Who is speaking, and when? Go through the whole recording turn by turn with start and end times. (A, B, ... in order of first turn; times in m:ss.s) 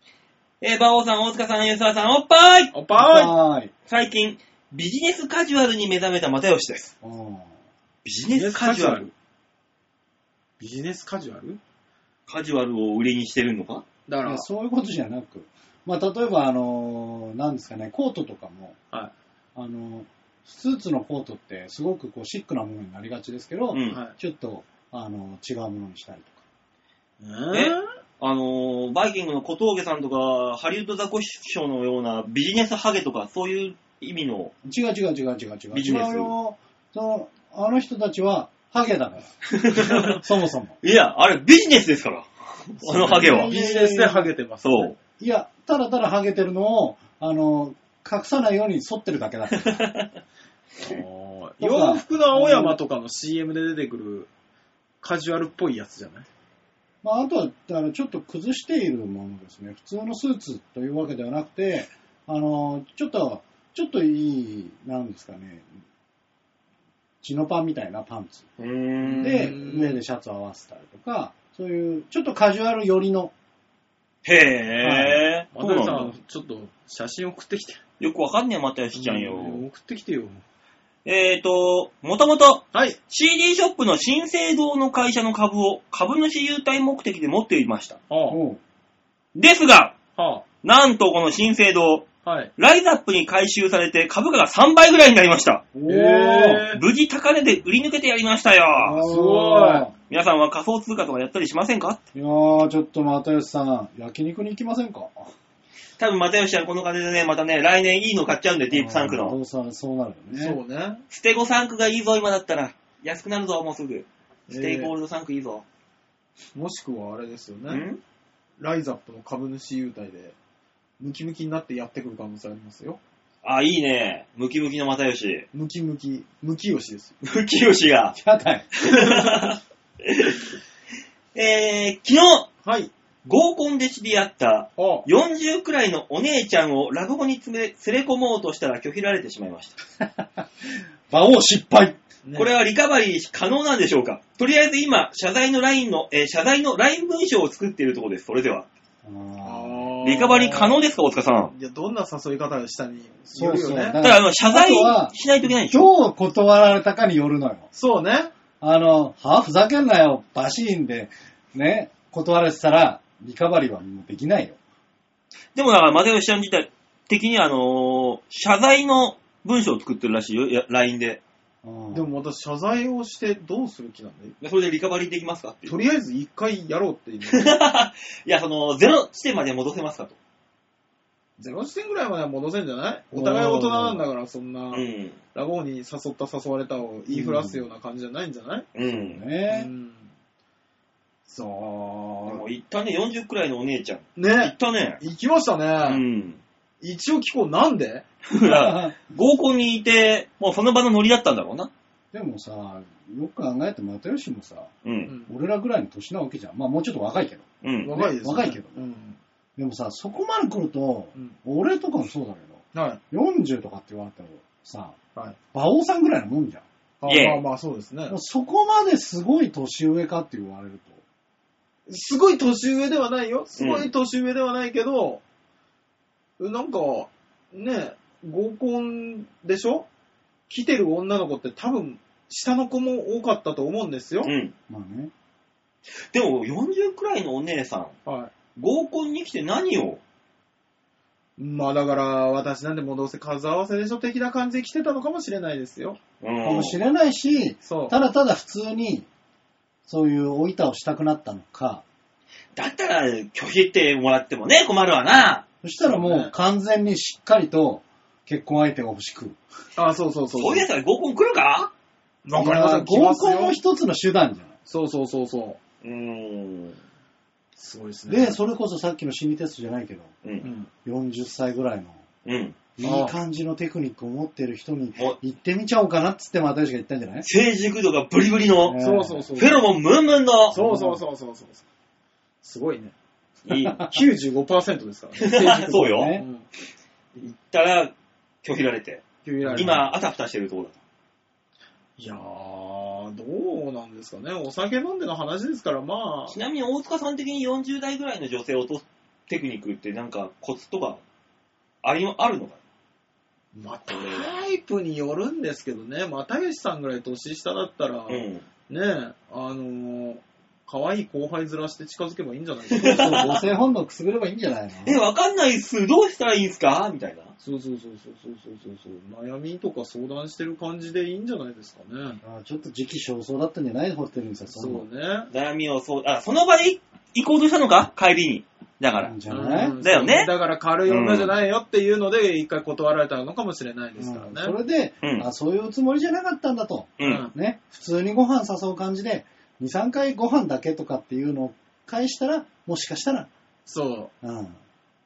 0:00.6-0:02.7 A
0:02.7-0:03.3 B
0:03.0-0:03.7 C
0:03.9-0:06.9 A
0:07.0-0:07.5 C
0:08.0-0:09.1 A
0:08.3-0:09.1 B
0:10.6-0:11.6 B
0:12.3-0:13.8 A
0:14.1-0:14.4 B
0:14.2-0:18.8 C
0:19.6-0:26.4 C
0:23.7-0:24.0 A
0:23.9-0:24.1 B
0:27.2-0:27.8 B
0:27.5-0:34.5 A
0:34.6-0:39.4 C
0:35.7-0:36.3 A
0:39.4-0:40.2 A
0:40.1-0:40.8 C
0:40.8-0:43.5 A
0:42.9-0:44.9 B
0:42.9-0:44.3 C
0:44.6-0:44.9 A
0:45.2-0:49.8 C
0:49.6-0:50.1 A
0:50.8-0:54.3 B
0:51.6-0:52.8 C
0:55.0-0:56.2 B
0:57.0-1:05.7 C
1:07.2-1:08.4 C
1:08.6-1:09.5 A
1:09.0-1:10.0 B
1:09.2-1:13.3 C
1:14.2-1:16.1 A
1:14.8-1:15.2 C
1:15.5-1:17.8 B
1:18.0-1:19.6 A
1:18.9-1:20.4 B
1:21.0-1:28.0 A
1:22.7-1:23.0 B
1:28.1-1:28.4 B
1:28.3-1:28.6 C
1:29.3-1:30.0 A
1:30.2-1:30.4 B
1:30.6-1:35.6 A
1:32.2-1:32.5 B
1:35.7-1:36.6 C
1:35.8-1:36.8 B
1:36.7-1:39.0 A
1:38.8-1:39.8 B
1:39.0-1:39.9 C
1:40.1-1:42.0 A
1:42.1-1:45.3 C
1:46.0-1:49.4 A
1:48.7-1:50.6 C
1:50.3-1:51.0 B
1:51.1-1:55.6 A
1:54.5-1:54.9 B
1:56.5-1:57.8 B
1:57.7-1:58.0 A
1:58.6-2:00.4 B
2:01.0-2:03.0 B
2:03.4-2:05.4 A
2:05.5-2:07.2 B
2:07.2-2:08.2 A
2:08.1-2:08.7 C
2:08.8-2:10.4 A
2:09.0-2:09.5 B
2:11.3-2:12.5 A
2:12.6-2:12.9 B
2:13.2-2:19.8 A
2:14.8-2:15.1 B
2:20.0-2:20.4 C
2:21.1-2:22.0 C
2:22.2-2:22.5 B
2:22.3-2:28.7 A
2:29.0-2:29.9 C
2:29.4-2:34.0 B
2:30.0-2:31.5 A
2:33.3-2:37.7 C
2:34.0-2:35.9 A
2:37.7-2:38.3 B
2:38.6-2:44.6 C
2:45.5-2:51.2 A
2:51.6-2:52.1 C
2:51.9-2:54.4 B
2:54.4-2:55.8 A
2:55.6-2:57.6 B
2:57.3-3:00.2 A
3:01.4-3:08.7 B
3:03.1-3:04.0 C
3:04.7-3:05.2 A
3:07.1-3:07.7 C
3:08.7-3:09.2 A
3:08.8-3:09.7 C
3:09.5-3:10.1 B
3:11.2-3:12.4 B
3:12.3-3:15.0 A
3:14.2-3:16.0 B
3:15.8-3:16.4 A
3:16.8-3:18.0 B
3:18.2-3:21.7 A
3:18.4-3:18.9 C
3:22.1-3:24.7 C
3:24.8-3:25.1 A
3:25.3-3:28.8 C
3:27.6-3:28.0 A
3:27.8-3:29.2 B
3:29.6-3:35.0 C
3:32.7-3:33.0 B
3:35.5-3:36.6 C
3:37.0-3:38.2 B
3:37.0-3:37.4 A
3:38.1-3:41.0 C
3:41.9-3:45.2 B
3:43.6-3:43.9 A
3:46.4-3:49.9 B
3:50.5-3:54.3 B
3:54.2-3:54.5 A
3:54.7-3:55.1 C
3:56.1-3:57.9 A
3:58.0-3:58.3 B
3:58.6-4:00.0 A
4:01.4-4:06.0 B
4:06.2-4:06.8 A
4:06.4-4:09.1 C
4:07.6-4:07.9 B
4:09.8-4:11.8 C
4:12.6-4:15.4 A
4:15.6-4:19.4 C
4:15.8-4:16.3 B
4:19.8-4:20.6 B
4:20.3-4:21.7 A
4:22.2-4:23.6 B
4:22.3-4:24.5 C
4:24.7-4:25.6 B
4:25.8-4:26.8 A
4:27.6-4:28.4 B
4:28.1-4:30.1 C
4:30.2-4:30.5 A
4:30.4-4:30.7 B
4:30.8-4:32.0 C
4:32.2-4:32.6 A
4:32.8-4:37.3 C
4:32.8-4:33.1 B
4:37.2-4:38.8 A
4:38.6-4:39.3 C
4:38.8-4:39.6 B
4:39.4-4:40.6 A
4:40.5-4:41.0 C
4:40.5-4:41.6 B
4:42.4-4:42.9 B
4:43.5-4:44.0 A
4:43.7-4:46.4 B
4:45.2-4:46.1 A
4:45.6-4:46.2 C
4:47.2-4:50.8 A
4:49.2-4:49.8 B
4:49.4-4:49.7 C
4:52.0-4:56.4 B
4:56.3-5:01.0 A
5:01.8-5:02.6 A
5:03.5-5:13.6 B
5:03.9-5:04.4 A
5:08.1-5:08.4 A
5:12.7-5:13.4 A
5:12.9-5:15.0 C
5:14.8-5:17.3 A
5:17.4-5:22.2 B
5:22.2-5:24.8 C
5:24.5-5:25.3 B
5:25.3-5:29.1 A
5:28.9-5:29.8 C
5:29.3-5:34.6 B
5:29.8-5:30.3 A
5:30.8-5:31.3 A
5:34.0-5:43.3 C
5:35.0-5:35.3 A
5:37.0-5:37.3 A
5:37.0-5:37.3 B
5:43.6-5:44.1 B
5:44.2-5:44.6 C